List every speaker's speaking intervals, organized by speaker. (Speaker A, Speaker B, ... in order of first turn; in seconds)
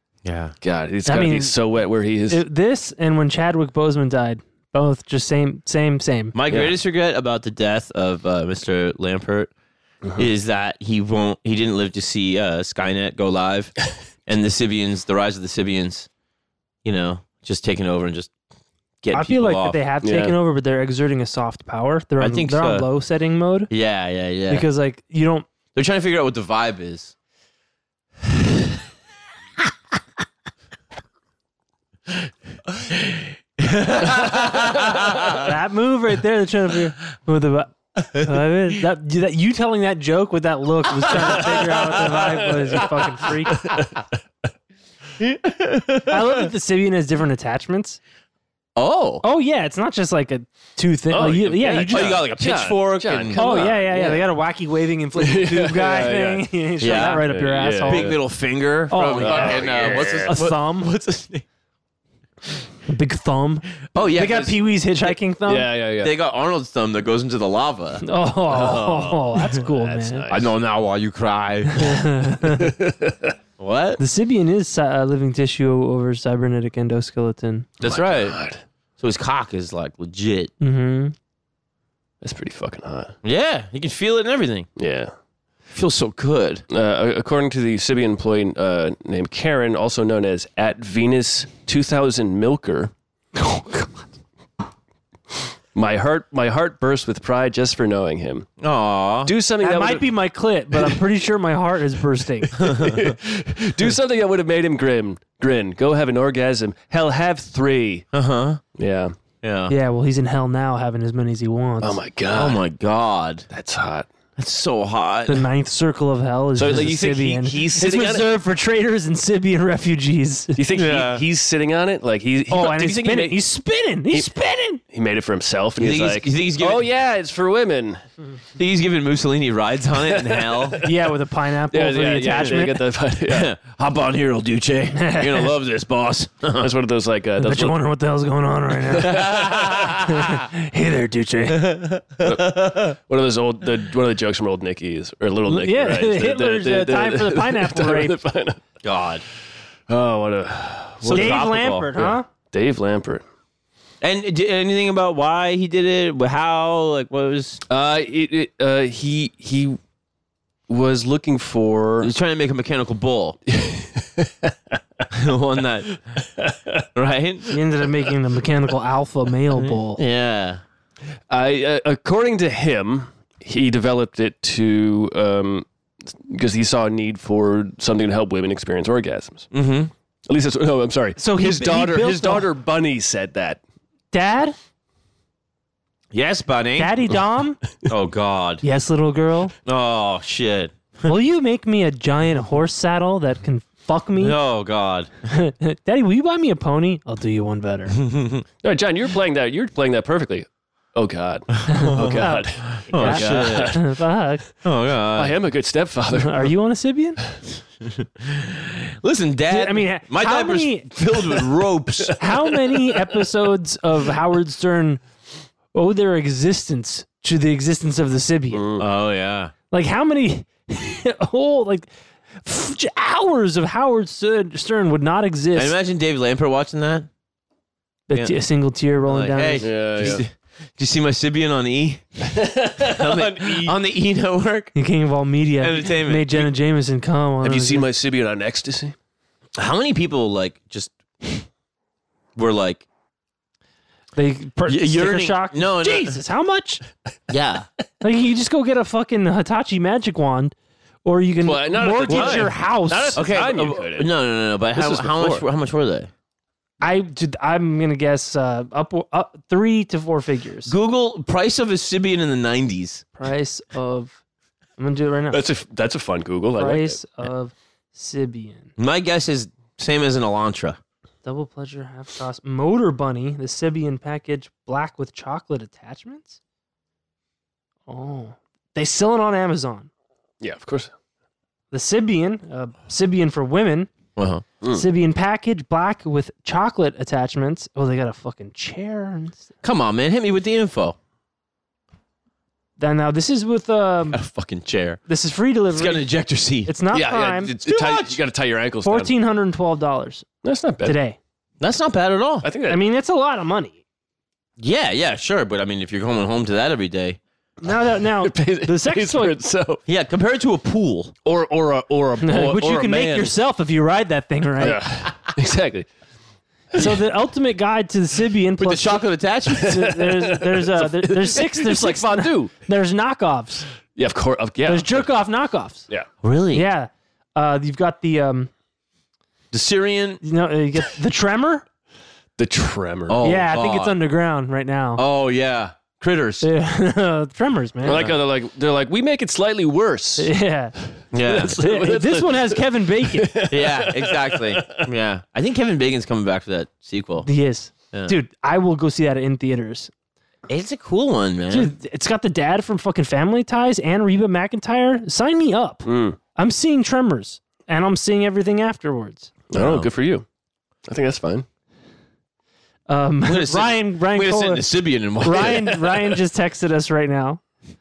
Speaker A: 0.2-0.5, 6.3-9.5, 10.2-16.1, 16.8-18.3, 19.0-19.8, 22.2-22.9, 23.7-24.6, 25.7-27.1, 32.7-35.5, 41.1-42.0, 45.2-46.5, 48.8-49.2, 51.8-53.7, 56.8-57.3, 57.8-61.4, 63.9-64.6, 66.0-69.1, 70.3-72.0, 73.6-74.0, 77.8-78.4, 79.0-80.5, 83.2-84.7, 85.7-86.6, 98.6-99.3, 102.6-103.1, 108.1-108.6, 109.4-109.7, 112.3-113.5, 114.4-115.4, 120.7-121.2, 125.8-126.9, 128.6-130.8, 133.2-136.7, 139.1-140.2, 141.5-142.9, 148.8-149.2, 151.0-151.9, 154.0-157.6, 162.0-163.4, 165.1-166.2, 166.9-167.5, 169.6-170.6, 179.5-179.9, 186.1-187.0, 187.8-188.6, 189.6-190.8, 194.2-195.1, 197.9-198.4, 201.6-203.8, 204.6-205.4, 207.8-212.2, 218.8-219.5, 225.5-227.1, 228.1-228.4, 229.1-232.2, 232.8-234.7, 235.6-236.5, 239.6-241.4, 242.3-242.8, 244.7-246.2, 247.3-247.7, 252.0-252.5, 253.1-256.1, 260.6-263.0, 268.8-270.8, 284.1-284.4, 289.6-291.0, 294.1-295.0, 295.7-296.8, 297.4-298.2, 301.6-302.5, 304.6-307.2, 309.9-311.1, 318.6-319.9, 326.2-326.7, 329.5-330.2, 333.1-333.9, 334.9-336.4, 337.9-338.1, 341.1-341.6, 343.5-347.3, 350.5-351.7, 359.5-359.9, 363.2-366.2
Speaker B: 0.6-2.4, 20.0-20.3, 43.5-44.0, 51.1-54.2, 55.2-58.2, 59.2-60.3, 65.5-66.1, 68.5-70.5, 72.5-73.3, 77.8-78.6, 82.2-83.1, 84.8-85.1, 86.7-92.9, 95.7-98.5, 99.2-100.1, 102.6-108.0, 108.8-109.1, 111.8-112.6, 113.5-114.1, 116.6-118.3, 120.5-123.4, 124.8-128.0, 130.1-130.9, 131.7-133.5, 136.6-137.8, 138.9-140.0, 142.2-148.6, 149.9-151.4, 152.0-153.2, 157.7-159.8, 160.7-162.1, 163.5-164.5, 166.4-166.8, 171.3-179.5, 180.3-183.6, 198.6-203.9, 205.1-206.5, 218.5-218.9, 229.6-230.2, 232.2-233.7, 237.4-238.9, 251.4-254.1, 254.7-255.4, 265.3-267.0, 280.4-280.9, 296.9-299.1, 300.4-301.0, 302.4-302.8, 307.7-309.8, 311.2-313.3, 314.6-315.9, 319.6-322.5, 323.9-325.1, 332.4-333.2, 337.8-340.3, 341.2-344.9, 355.8-356.2, 359.5-360.2, 360.9-361.4
Speaker C: 1.1-1.6, 2.3-6.3, 19.1-23.7, 24.5-25.4, 35.4-43.6, 46.1-48.0, 49.2-52.2, 53.3-58.1, 58.9-60.9, 62.9-65.7, 68.0-70.3, 71.8-72.7, 74.0-77.7, 80.6-81.1, 93.3-94.0, 99.6-102.5, 109.7-112.0, 115.3-120.6, 122.5-124.8, 130.8-132.8, 134.9-135.5, 137.4-141.7, 145.5-148.2, 151.1-152.3, 167.5-170.0, 181.2-182.5, 184.1-184.6, 186.8-187.6, 188.6-189.5, 191.1-194.4, 195.3-197.9, 201.7-204.4, 206.1-207.2, 209.5-210.9, 212.2-215.0, 215.7-218.6, 219.7-221.9, 222.4-225.8, 228.1-229.7, 234.7-237.8, 244.2-246.8, 248.0-250.5, 251.0-253.2, 256.8-260.7, 263.1-264.2, 264.8-265.4, 266.6-268.7, 271.2-276.4, 277.9-279.9, 281.7-283.9, 284.7-289.4, 292.8-294.2, 295.1-296.1, 296.6-297.5, 298.8-300.2, 300.8-301.2, 302.7-303.8, 307.6-309.4, 312.2-314.8, 316.7-323.7, 324.6-325.8, 326.5-328.5, 330.2-331.6, 333.2-335.0, 336.4-338.1, 340.2-340.7, 341.6-343.3, 347.2-349.9, 351.5-359.3, 362.9-367.4